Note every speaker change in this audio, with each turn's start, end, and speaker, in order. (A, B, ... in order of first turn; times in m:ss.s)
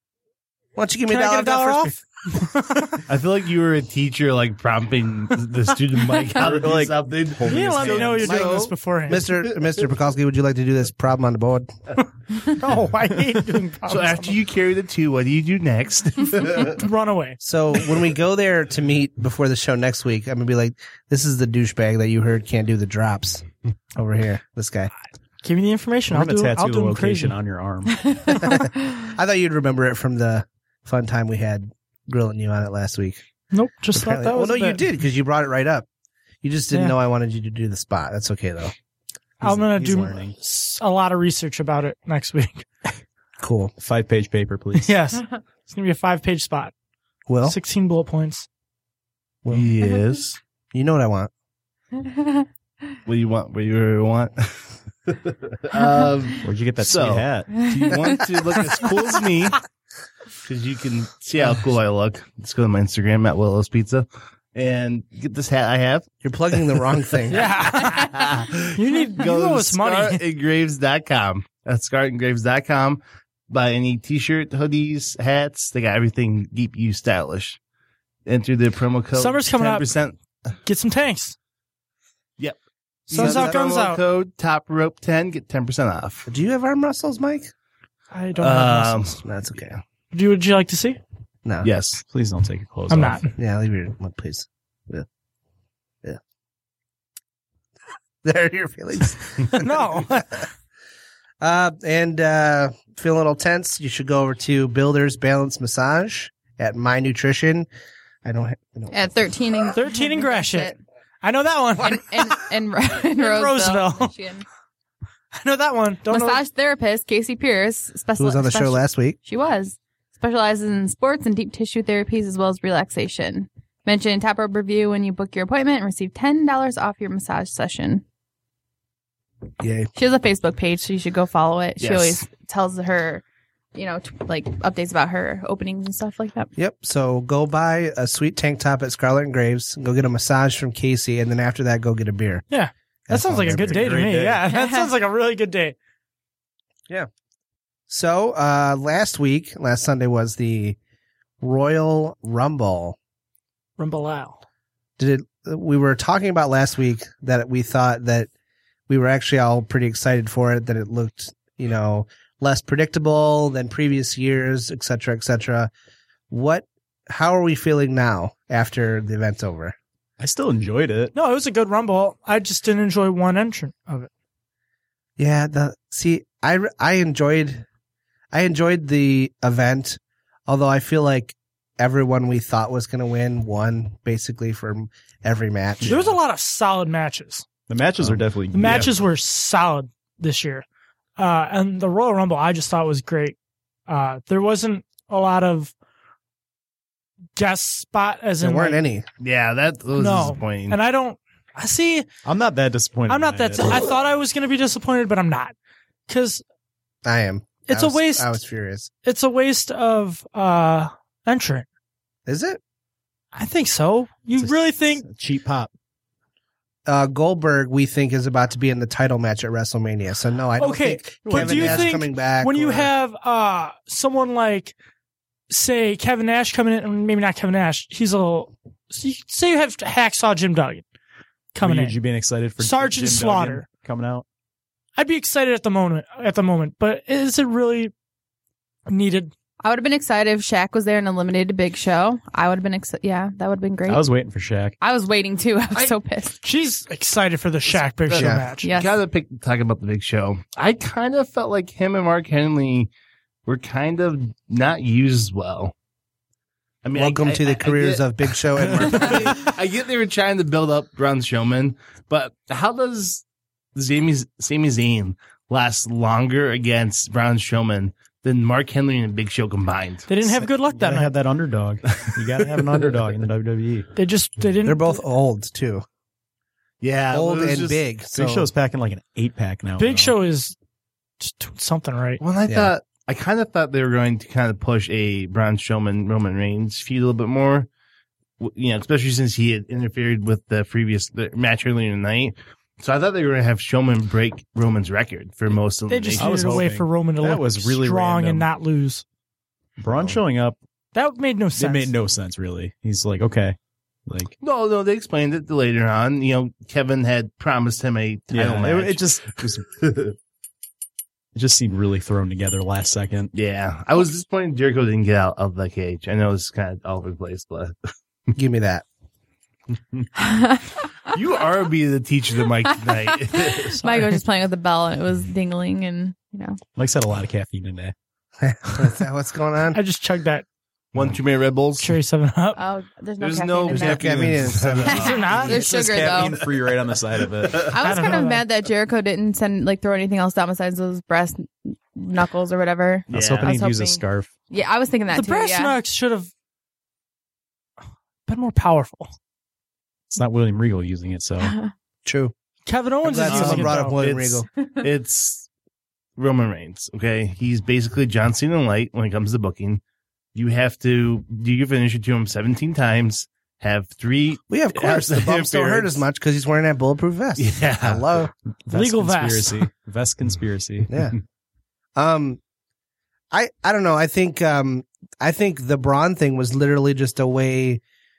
0:00.8-0:02.0 A
0:01.1-0:03.0 B
0:03.1-0:08.7 C
0:06.3-0:08.4 D
0:07.5-0:09.3 B
0:08.2-0:11.7 A
0:12.5-0:14.4 B
0:13.9-0:16.8 C
0:16.6-0:17.4 B
0:17.4-0:24.9 A
0:25.4-0:27.4 B
0:26.1-0:28.0 D
0:28.0-0:29.1 E
0:28.4-0:33.2 A
0:33.5-0:34.8 B
0:33.9-0:35.8 A
0:36.4-0:38.7 A
0:39.4-0:40.4 D
0:39.4-0:42.6 B
0:43.4-0:43.7 A
0:43.8-0:45.0 D
0:44.7-0:46.7 B
0:47.3-0:47.6 A
0:47.4-0:48.5 B
0:49.4-0:49.7 A
0:49.5-0:50.4 C
0:50.7-0:51.3 A
0:52.0-0:52.4 E
0:53.0-0:59.6 C
0:56.4-0:57.6 D
0:57.6-0:58.7 E
1:00.4-1:06.1 C
1:06.2-1:07.5 A
1:07.3-1:08.2 B
1:07.8-1:17.6 C
1:08.7-1:10.2 B
1:18.2-1:20.2 C
1:19.1-1:19.9 B
1:20.6-1:21.4 B
1:23.1-1:26.3 C
1:23.1-1:23.6 A
1:23.1-1:24.0 B
1:26.3-1:27.5 A
1:28.1-1:29.0 B
1:28.4-1:29.2 C
1:29.2-1:29.8 A
1:30.1-1:31.0 B
1:31.6-1:32.0 C
1:32.1-1:33.2 D
1:32.9-1:33.3 B
1:33.4-1:35.0 A
1:38.2-1:40.2 A
1:39.5-1:40.4 B
1:41.4-1:47.7 A
1:48.2-1:49.0 A
1:48.9-1:50.8 E
1:49.7-1:52.4 B
1:51.9-1:54.4 E
1:53.1-1:54.1 B
1:55.3-1:56.4 B
1:56.1-2:08.0 E
1:58.2-1:59.2 A
2:09.6-2:09.9 A
2:10.0-2:13.2 E
2:11.8-2:12.2 C
2:13.7-2:16.5 E
2:16.6-2:22.4 A
2:22.5-2:25.7 B
2:23.1-2:23.9 A
2:23.6-2:24.4 D
2:24.6-2:24.8 E
2:27.9-2:30.8 A
2:31.4-2:33.0 A
2:33.8-2:34.4 B
2:35.0-2:38.3 A
2:38.9-2:45.7 A
2:46.3-2:49.8 A
2:50.2-2:51.1 D
2:51.1-2:54.1 B
2:55.2-2:57.6 A
2:58.3-3:05.9 A
3:05.8-3:06.1 D
3:05.8-3:07.4 B
3:07.7-3:08.9 D
3:08.5-3:10.6 B
3:11.2-3:13.4 B
3:13.9-3:15.7 B
3:17.4-3:18.8 B
3:18.4-3:19.0 A
3:19.2-3:20.8 C
3:20.0-3:22.1 B
3:22.2-3:23.9 D
3:23.1-3:25.5 B
3:26.1-3:26.4 B
3:27.0-3:28.9 A
3:27.7-3:28.4 B
3:29.0-3:31.6 B
3:32.3-3:32.6 A
3:33.3-3:35.0 B
3:34.4-3:35.7 D
3:36.9-3:42.9 A
3:40.6-3:44.7 B
3:41.2-3:41.9 D
3:45.5-3:50.8 B
3:51.5-3:52.0 B
3:51.6-3:54.2 D
3:52.6-3:53.6 B
3:55.0-3:57.9 B
3:58.9-3:59.3 B
3:59.6-4:04.1 E
4:03.8-4:04.8 D
4:04.8-4:06.4 E
4:06.4-4:08.7 B
4:08.1-4:12.9 C
4:08.1-4:08.5 A
4:08.6-4:08.9 E
4:13.4-4:15.7 C
4:16.8-4:23.2 C
4:16.9-4:19.5 A
4:23.7-4:30.1 C
4:30.1-4:31.1 B
4:30.2-4:33.9 D
4:32.0-4:32.8 C
4:34.0-4:35.0 B
4:34.6-4:35.8 A
4:36.8-4:37.8 C
4:37.1-4:38.5 A
4:38.1-4:40.2 D
4:39.8-4:40.5 B
4:41.2-4:42.2 B
4:42.2-4:47.7 C
4:42.5-4:42.7 A
4:48.4-4:56.6 C
4:55.9-4:59.0 B
4:56.2-4:58.5 D
4:59.8-5:00.6 D
5:00.9-5:01.9 B
5:01.6-5:03.6 D
5:04.1-5:04.3 D
5:04.4-5:10.1 C
5:08.3-5:09.6 D
5:11.3-5:13.3 D
5:13.3-5:17.7 C
5:18.3-5:18.8 A
5:20.2-5:20.8 E
5:21.1-5:23.7 C
5:22.8-5:26.6 E
5:23.8-5:24.2 B
5:26.8-5:27.9 D
5:28.4-5:29.8 A
5:29.7-5:30.4 B
5:30.9-5:31.9 C
5:31.8-5:32.6 B
5:32.5-5:36.5 E
5:33.2-5:35.5 C
5:33.7-5:35.2 A
5:35.0-5:35.8 B
5:35.5-5:38.0 D
5:37.5-5:45.8 E
5:37.8-5:38.4 B
5:43.1-5:44.3 D
5:43.1-5:43.5 C
5:45.1-5:46.3 B
5:48.3-5:49.1 B
5:50.1-5:51.5 D
5:51.4-5:51.7 E
5:52.0-5:52.3 A
5:52.6-5:54.0 B
5:53.0-5:54.5 A
5:53.3-5:55.5 C
5:56.2-5:59.8 C
6:00.3-6:06.0 C
6:04.5-6:08.3 A
6:07.4-6:08.2 C
6:08.7-6:10.9 D
6:08.7-6:09.7 B
6:10.9-6:11.2 A
6:12.0-6:12.4 A
6:13.3-6:17.8 A